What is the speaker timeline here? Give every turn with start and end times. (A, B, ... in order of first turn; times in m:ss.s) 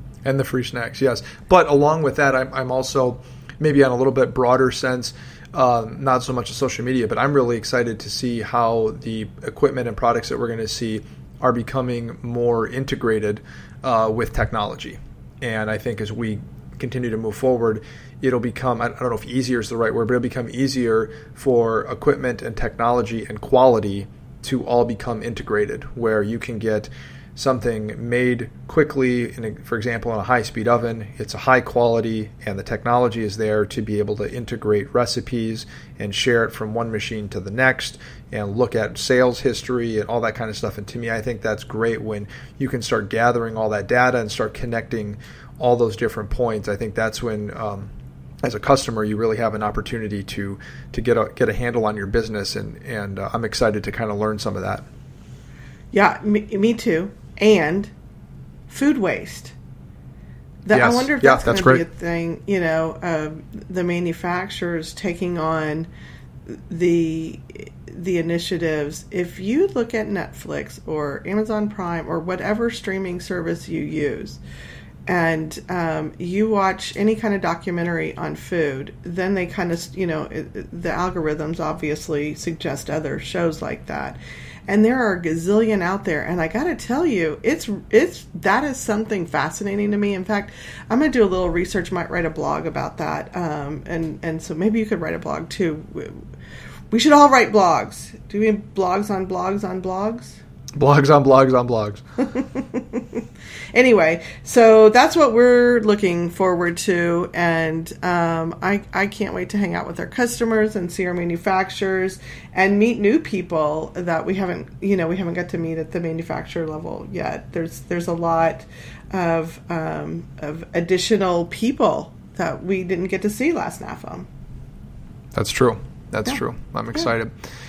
0:00.2-0:47.9 A
0:48.4-0:54.8 A
0:55.9-0:57.9 B
0:58.7-0:59.5 B
1:00.6-1:05.9 B
1:00.7-1:01.8 A
1:06.5-1:14.4 B
1:15.1-1:36.2 B
1:36.9-1:40.4 B
1:40.7-1:42.0 A
1:42.2-2:04.3 B
2:05.3-2:07.3 A